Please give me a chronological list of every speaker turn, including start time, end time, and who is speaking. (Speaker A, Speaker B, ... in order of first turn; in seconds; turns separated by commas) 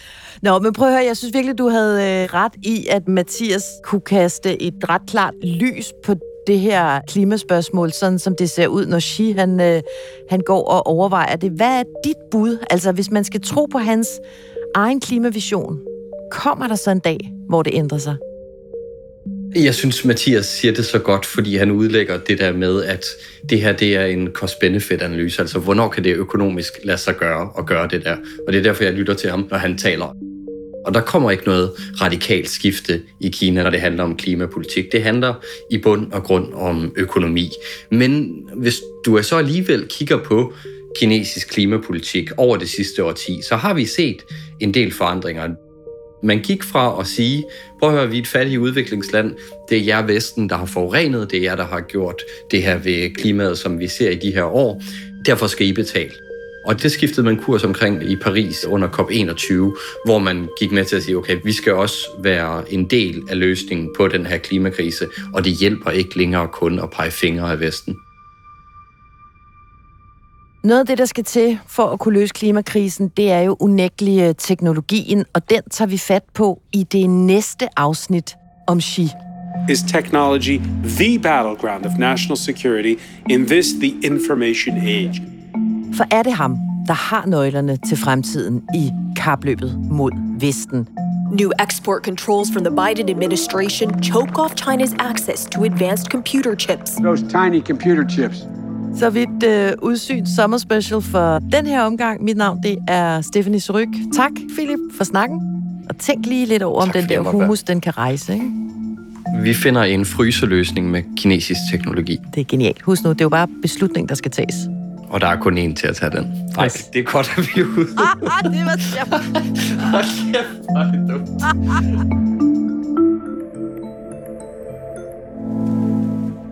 Speaker A: 0.4-14.2, Speaker A: 14.7-18.2, Speaker B: 19.5-30.1, Speaker B: 30.8-45.5, Speaker B: 46.2-68.0, Speaker A: 70.6-79.1, Speaker C: 79.7-85.2, Speaker A: 85.9-90.9, Speaker D: 91.3-97.0, Speaker A: 98.9-108.5, Speaker B: 106.8-107.6, Speaker B: 109.3-112.2, Speaker A: 112.3-114.7, Speaker B: 115.1-121.4, Speaker A: 118.0-119.1